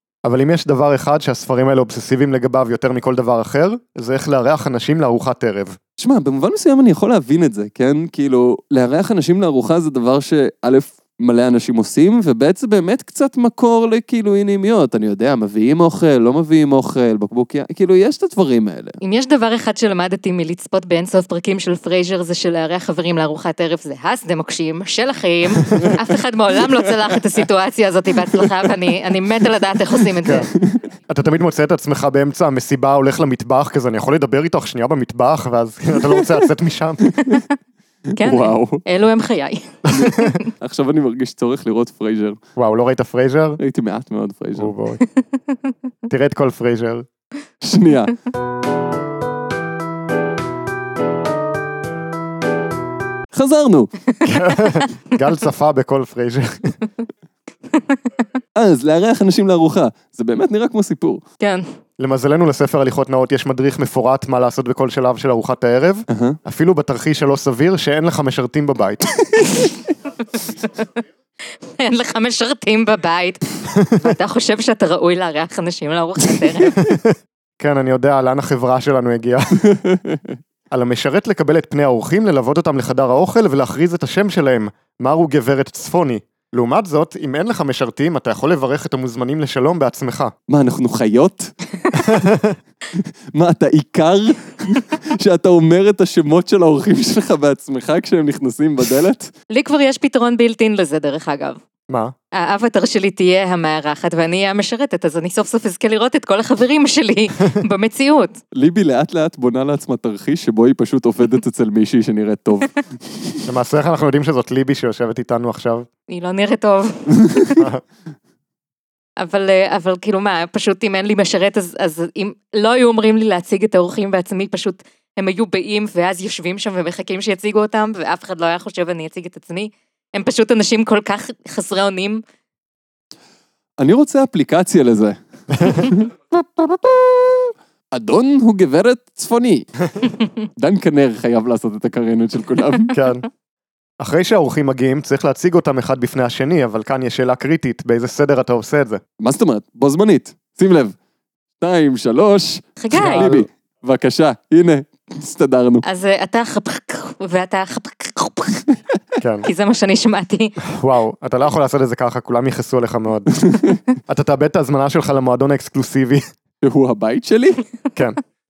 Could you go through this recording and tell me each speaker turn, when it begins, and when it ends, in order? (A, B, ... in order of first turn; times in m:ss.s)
0:00.2-0:05.8 A
0:06.0-0:19.0 B
0:19.0-0:30.5 C
0:25.7-0:26.0 B
0:30.2-0:30.5 A
0:30.6-0:30.8 B
0:31.1-0:37.1 A
0:37.0-0:37.4 B
0:38.2-0:40.4 C
0:38.2-0:38.8 B
0:39.9-0:40.4 A
0:39.9-0:42.4 B
0:42.6-0:43.6 A
0:43.6-0:44.7 B
0:44.6-0:45.0 A
0:45.0-0:45.7 C
0:46.1-0:47.1 A
0:47.6-0:48.1 B
0:53.3-0:53.9 B
0:54.2-0:56.8 A
0:58.6-1:01.2 B
1:01.4-1:01.7 C
1:02.0-1:09.1 A
1:06.1-1:06.4 B
1:10.4-1:10.9 C
1:11.6-1:16.8 C
1:13.8-1:14.1 A
1:16.8-1:19.6 A
1:19.6-1:20.4 B
1:20.7-1:30.3 A
1:30.5-1:31.5 B
1:31.9-1:32.6 A
1:32.9-1:39.3 B
1:39.5-1:41.6 C
1:41.9-1:42.1 A
1:42.3-1:48.4 C
1:48.5-1:53.4 B
1:53.5-1:55.9 A
1:56.1-1:57.6 C
1:57.2-1:57.6 B
1:59.2-2:12.2 C
2:13.8-2:19.7 B
2:15.5-2:15.9 A
2:20.6-2:22.9 B
2:22.9-2:23.2 A
2:24.0-2:29.0 A
2:29.2-2:31.0 B
2:31.6-2:35.8 B
2:32.8-2:33.4 C
2:32.9-2:33.5 A
2:35.8-2:38.7 C
2:39.2-2:39.5 A
2:39.4-2:40.6 C
2:40.6-2:43.4 A
2:43.4-2:43.8 B
2:44.1-2:46.2 A
2:46.6-2:47.6 B